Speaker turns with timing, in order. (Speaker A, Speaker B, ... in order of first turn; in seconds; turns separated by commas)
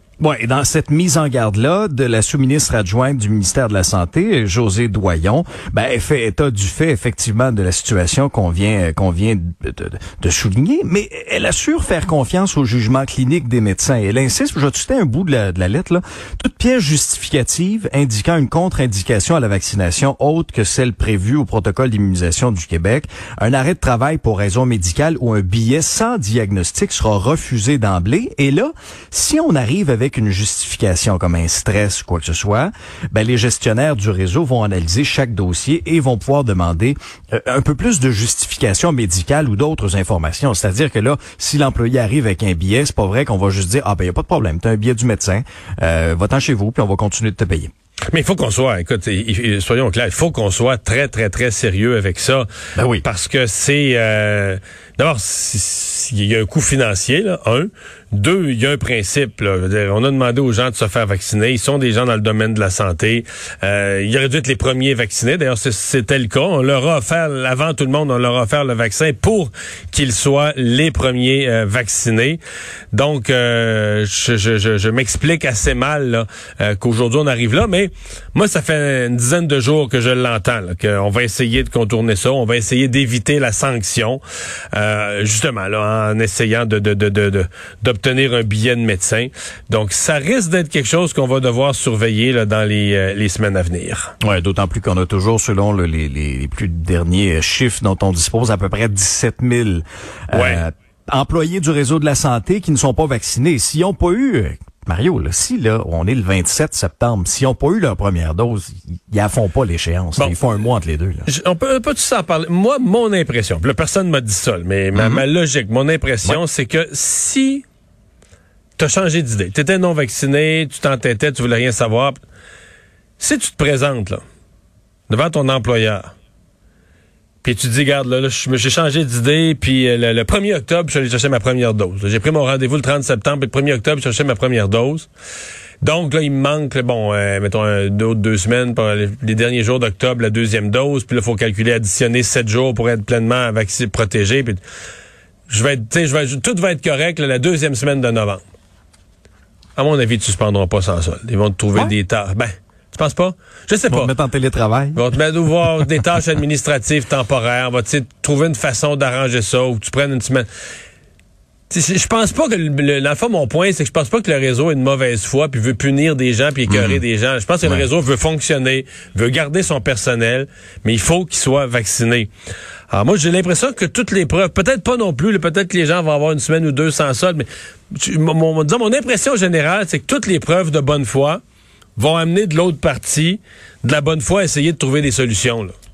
Speaker A: 0.2-47.7, Speaker B: 48.1-52.5, Speaker A: 52.8-53.0, Speaker B: 53.0-72.4, Speaker B: 72.9-84.2, Speaker B: 84.7-94.1, Speaker A: 94.2-111.3, Speaker B: 100.3-100.6, Speaker B: 111.3-117.6, Speaker A: 115.0-115.2, Speaker B: 118.8-122.2, Speaker B: 123.2-124.2, Speaker B: 125.1-126.1, Speaker B: 127.4-135.1, Speaker B: 135.8-144.6, Speaker B: 145.5-148.4, Speaker B: 149.8-154.1, Speaker A: 153.9-155.0, Speaker B: 154.9-160.5, Speaker B: 161.7-172.3, Speaker A: 166.7-167.0, Speaker B: 172.9-181.4, Speaker B: 182.0-185.8